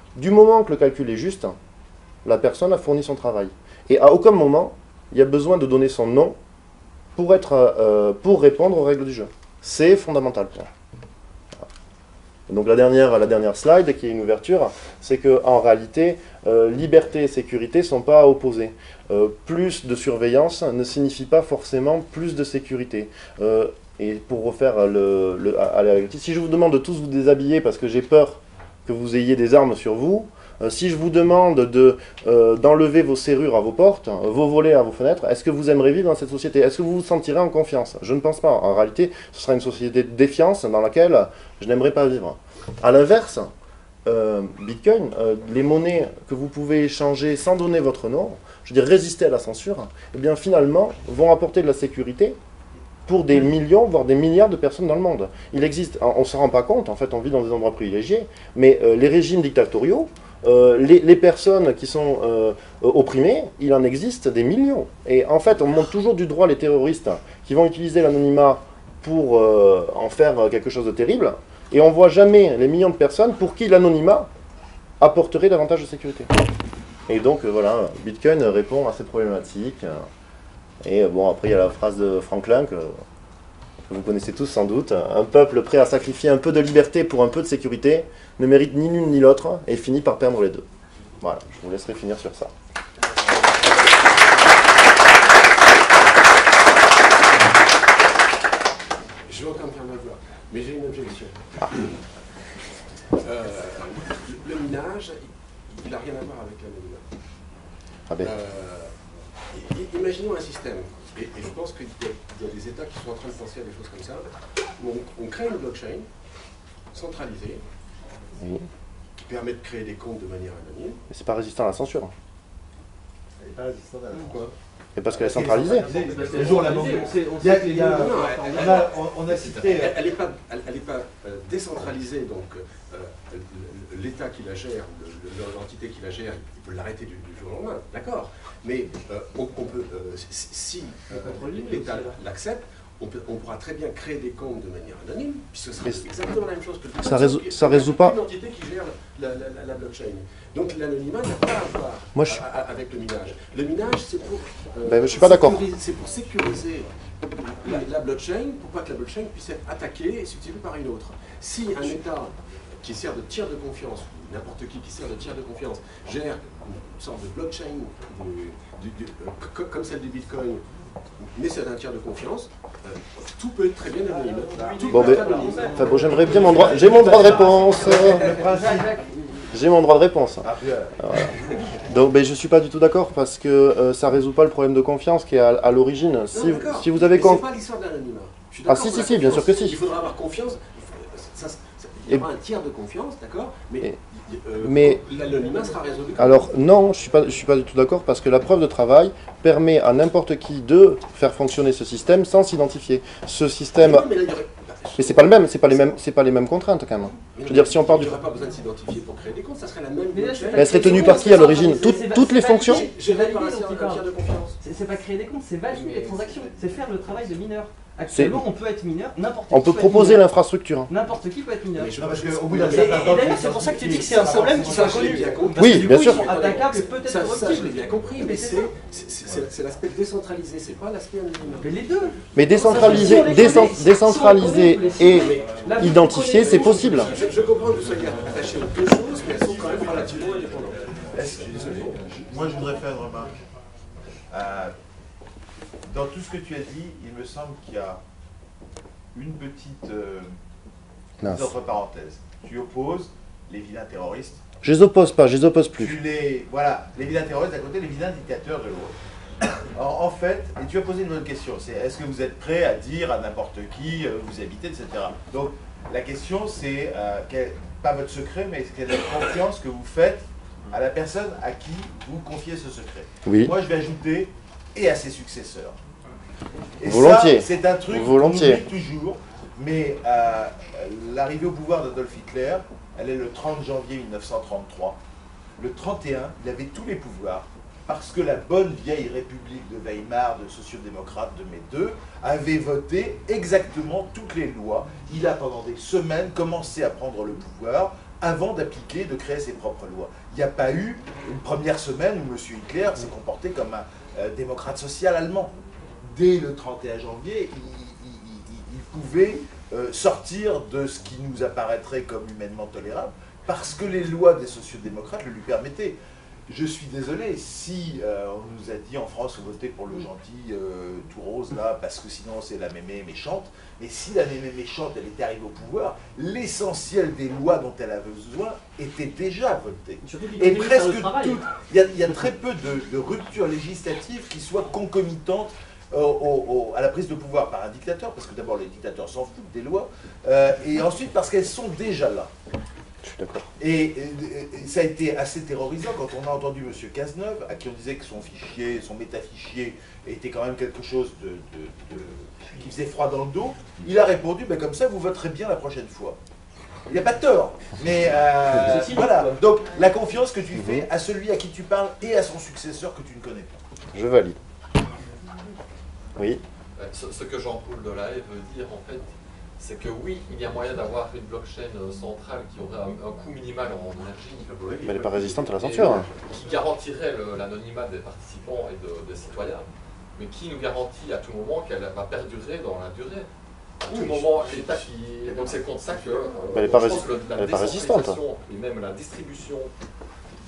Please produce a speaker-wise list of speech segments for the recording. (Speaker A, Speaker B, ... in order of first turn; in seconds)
Speaker A: 0.1-1.5, 2.2-6.4, 7.2-10.7, 12.5-43.5, 44.0-52.4, 53.1-74.3, 75.0-76.3, 77.1-80.0, 80.8-83.0, 83.9-90.6, 91.2-92.5, 118.4-118.7, 121.1-122.1, 125.0-125.9, 147.0-148.2, 152.2-152.4, 154.8-155.6, 174.9-178.3, 179.5-180.5, 181.0-181.3, 181.9-187.4, 188.7-189.8, 194.6-195.0, 196.2-204.1, 205.0-208.2, 210.5-212.8, 218.1-218.4, 219.5-220.9, 225.6-226.2, 232.3-237.1, 251.2-251.5, 254.6-256.0, 273.2-273.5, 276.8-278.6, 343.0-343.5, 360.5-360.9, 363.9-364.4, 366.2-366.4, 374.8-376.1, 386.5-388.2
Speaker B: 99.2-102.0, 103.1-107.0, 108.2-108.9, 109.5-114.3, 114.8-116.1, 116.9-117.6, 119.2-121.0, 126.1-127.1, 127.8-170.6, 171.2-177.5, 186.3-196.5, 203.8-206.0, 207.3-214.6, 215.7-216.5, 221.8-223.4, 224.1-231.8, 232.6-233.7, 235.0-240.8, 241.5-241.9, 374.5-376.1, 383.8-384.4
Speaker C: 123.4-124.5, 125.1-130.0, 174.8-175.6, 176.4-178.9, 180.4-180.9, 221.9-225.4, 241.1-243.3, 244.3-244.7, 245.9-248.0, 249.1-250.3, 251.2-254.4, 255.8-258.9, 259.7-275.8, 276.8-285.0, 285.6-342.3, 343.6-356.2, 356.9-363.6
Speaker D: 125.6-129.0, 141.1-142.2, 174.5-179.1, 210.1-214.0, 214.6-220.2, 220.9-222.0, 222.5-228.7, 231.6-237.1, 330.0-331.4, 358.6-359.4
Speaker E: 129.3-129.7, 366.8-374.6, 375.6-383.3, 383.8-389.7